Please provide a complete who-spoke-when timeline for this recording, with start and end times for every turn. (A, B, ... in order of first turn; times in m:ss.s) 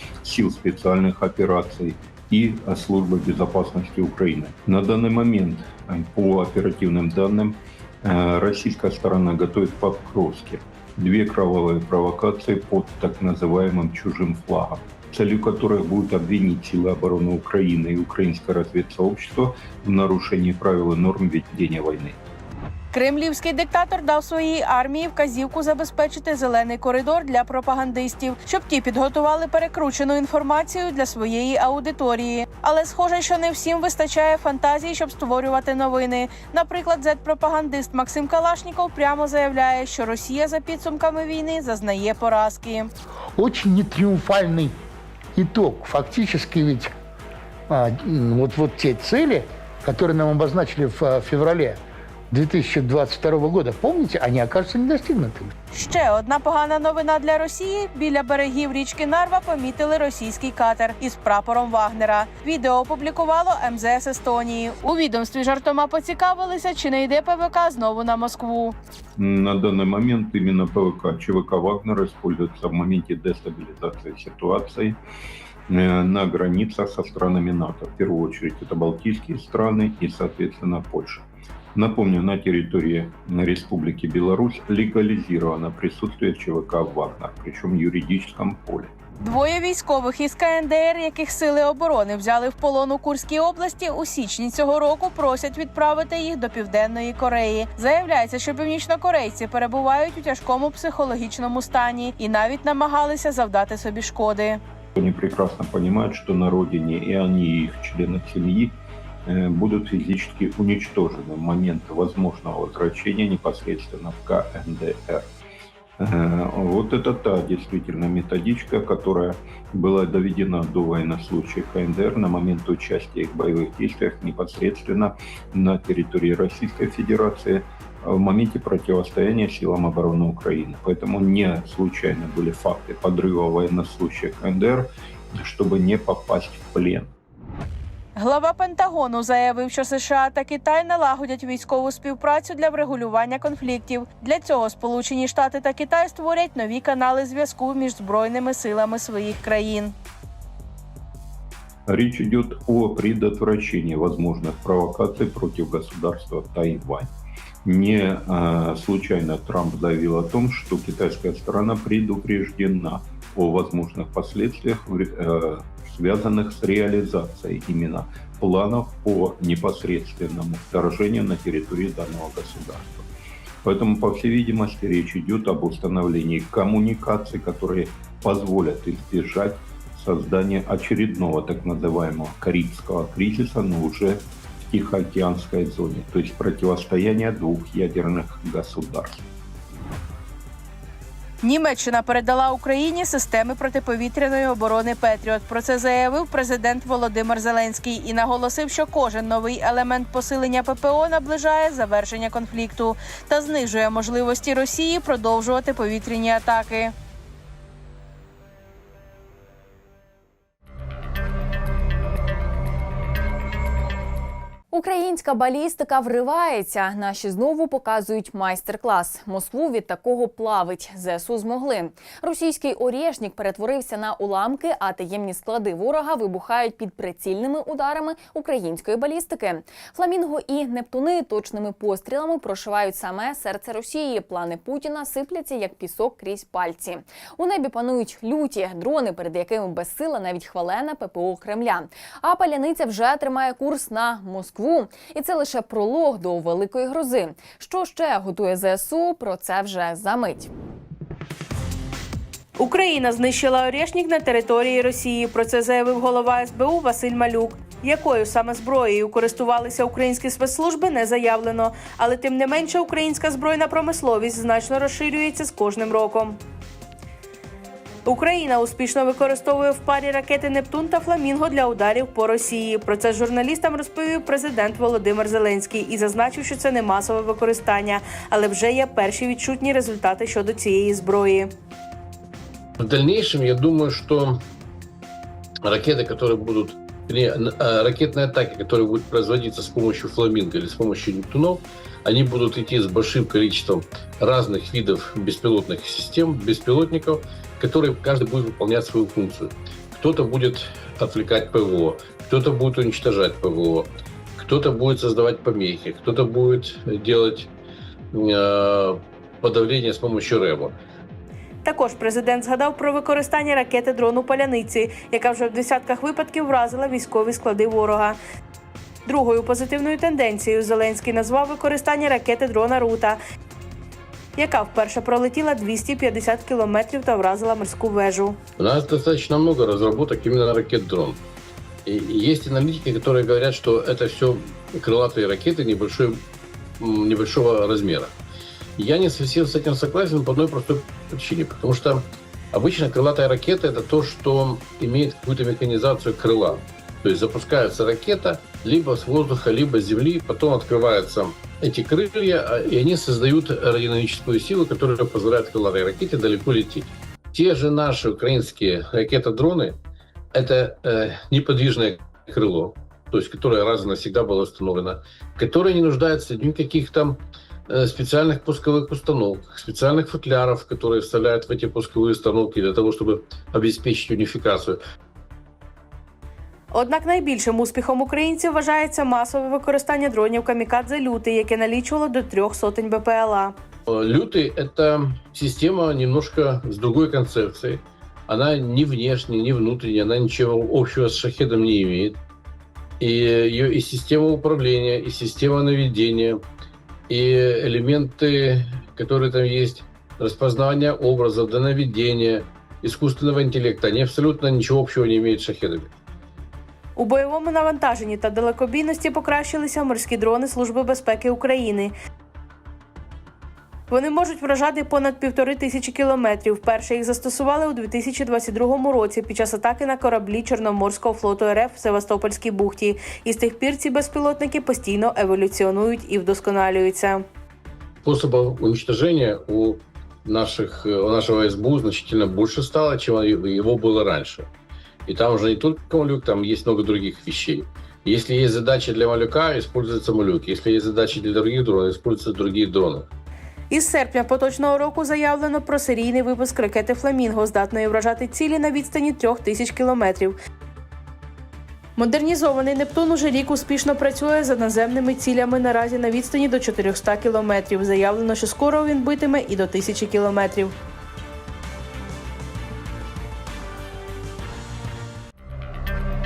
0:00.2-0:22.2 A
0:22.9-0:42.9 B
0:43.4-0:44.8 C
0:45.4-0:46.9 C
0:47.7-0:55.5 C
0:55.7-1:08.8 B
1:09.2-1:15.0 A
1:15.7-1:28.9 A
1:29.2-1:44.6 B
1:45.0-1:55.3 A
1:56.0-2:17.1 A
2:18.2-2:29.9 B
2:31.9-2:37.1 A
2:37.6-2:53.1 A
2:53.6-3:09.3 A
3:11.4-3:26.9 B
3:34.7-4:10.5 D
4:12.6-4:26.4 B
4:28.0-4:41.5 B
4:42.8-4:44.4 E
4:45.6-5:07.5 E
5:08.1-5:10.7 E
5:11.6-5:18.2 B
5:19.1-5:23.2 B
5:24.4-5:28.4 B
5:28.6-5:31.2 E
5:31.9-5:36.2 E
5:36.8-5:38.1 E
5:38.8-5:59.8 E
6:00.3-6:14.8 E
6:16.7-6:23.5 B
6:23.9-6:32.2 E
6:33.0-6:36.4 E
6:37.1-6:45.9 E
6:47.0-6:51.9 B
6:53.9-7:07.2 B
7:08.0-7:14.5 E
7:15.1-7:23.1 E
7:23.7-7:30.4 B
7:32.0-7:40.7 B